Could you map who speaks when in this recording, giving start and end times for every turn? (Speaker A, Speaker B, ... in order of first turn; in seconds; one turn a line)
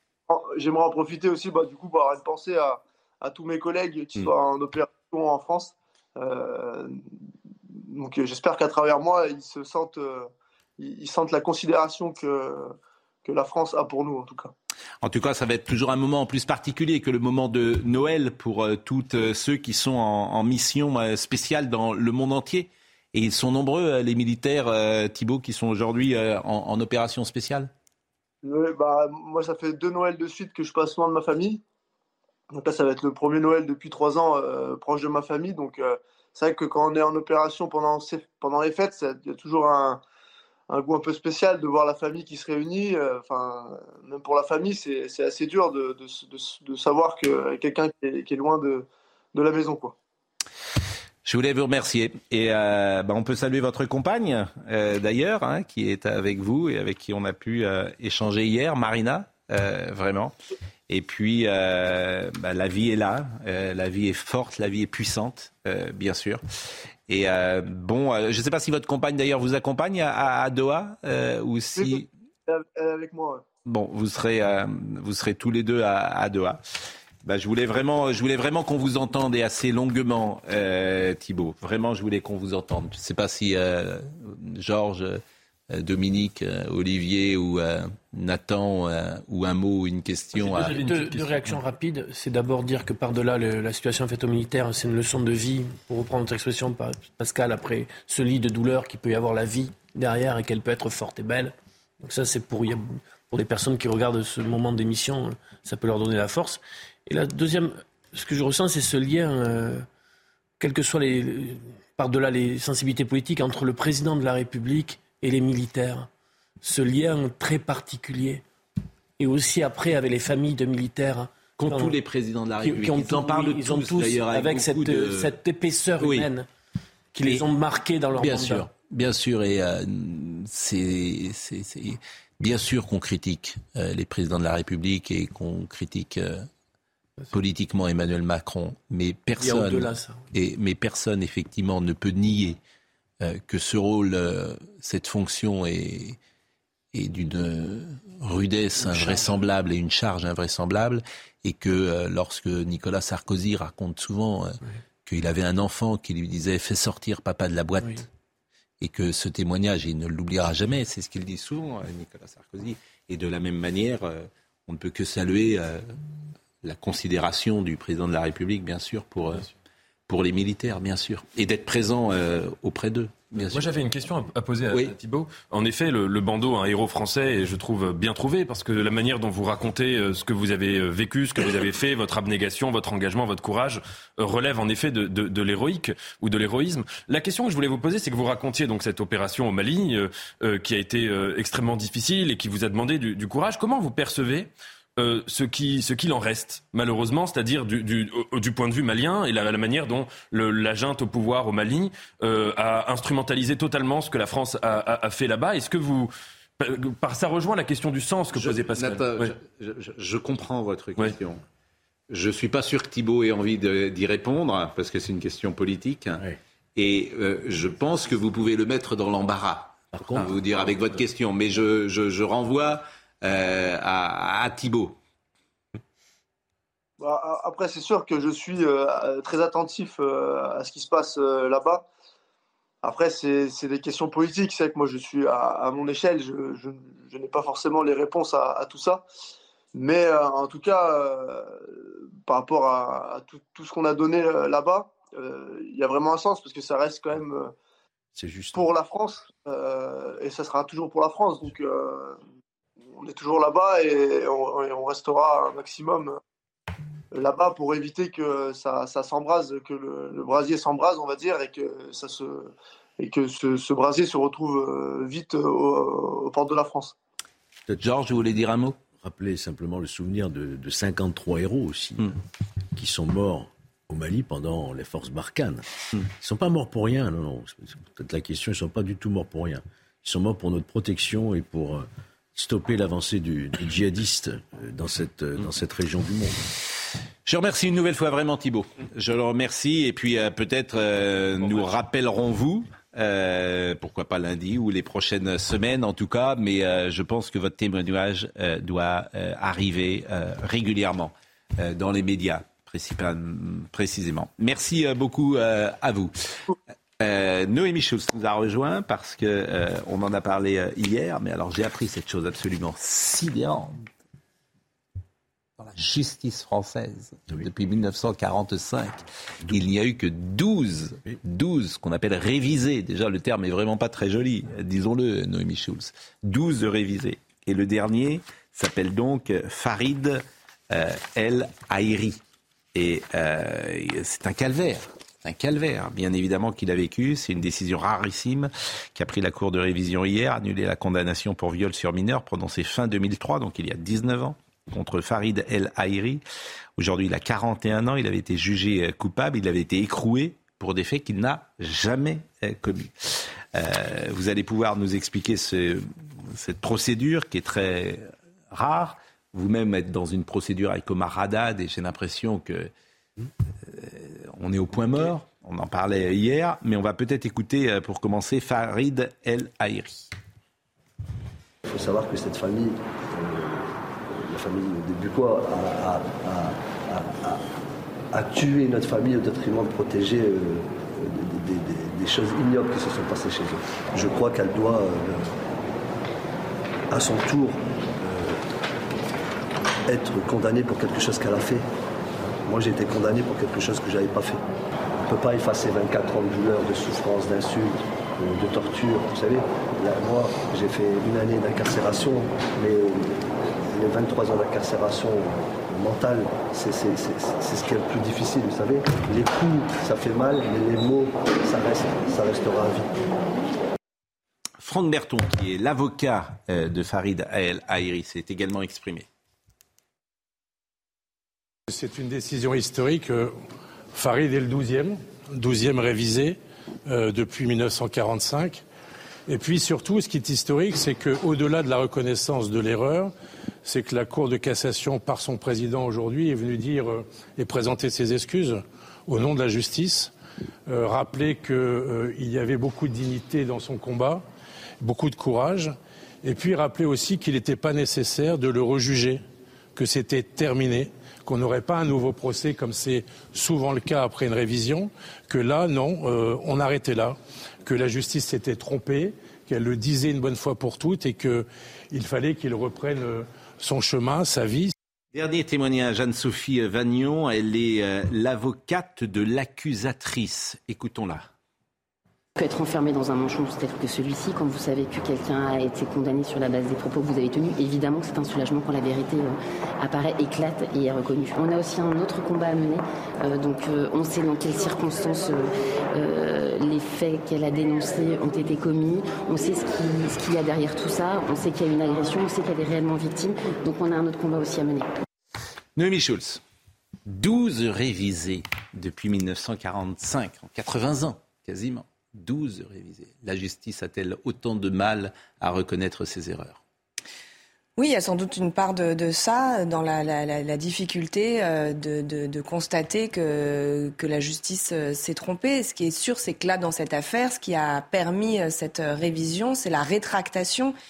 Speaker A: 0.3-6.9
Speaker A: 7.9-12.7
Speaker A: 13.2-14.5
Speaker B: 15.0-27.7
Speaker A: 28.4-31.6
Speaker A: 32.5-40.0
Speaker A: 40.7-50.0
Speaker B: 51.2-60.3
Speaker B: 60.9-66.4
Speaker B: 67.1-72.1
Speaker A: 71.8-73.4
Speaker B: 73.7-76.6
Speaker B: 77.2-90.8
Speaker C: 90.4-109.8
Speaker D: 90.8-91.6
Speaker C: 110.6-116.1
Speaker C: 116.6-118.4
Speaker C: 119.2-122.0
Speaker B: 121.6-125.3
Speaker C: 122.6-126.5
Speaker B: 126.0-126.3
Speaker C: 127.1-128.7
Speaker B: 128.2-136.5
Speaker B: 137.3-142.6
Speaker C: 139.4-140.2
Speaker B: 143.2-146.2
Speaker B: 146.9-158.1
Speaker C: 148.8-149.4
Speaker B: 158.8-165.8
Speaker B: 166.6-169.5
Speaker B: 170.1-173.7
Speaker D: 173.5-209.3
Speaker B: 208.3-211.4
Speaker B: 212.1-216.2
Speaker B: 216.8-225.0
Speaker E: 219.9-220.4
Speaker A: 227.0-231.8
Speaker A: 232.8-239.0
Speaker A: 239.7-247.5
Speaker E: 248.1-248.7
Speaker A: 248.5-252.2
Speaker A: 252.9-256.2
Speaker A: 257.1-266.9
Speaker B: 267.7-268.8
Speaker E: 268.9-272.1
Speaker E: 272.7-286.4
Speaker B: 287.2-306.1
Speaker B: 307.0-313.8
Speaker B: 315.6-332.2
Speaker B: 332.7-346.2
Speaker B: 346.8-362.7
Speaker B: 363.6-370.1
Speaker F: 371.6-377.4
Speaker F: 378.1-385.4
Speaker F: 386.9-388.4
Speaker F: 389.9-391.6
Speaker F: 392.4-394.4
Speaker F: 394.9-413.0
Speaker B: 414.6-419.1
Speaker G: 421.7-423.3
Speaker G: 423.9-426.4
Speaker G: 426.9-428.6
Speaker G: 429.3-433.1
Speaker G: 433.7-440.1
Speaker G: 440.7-444.2
Speaker G: 444.8-445.7
Speaker G: 446.2-449.2
Speaker G: 449.8-461.4
Speaker G: 461.9-464.7
Speaker B: 465.1-471.3
Speaker H: 472.4-494.9
Speaker B: 495.8-496.4
Speaker B: 497.1-506.6
Speaker I: 507.8-520.7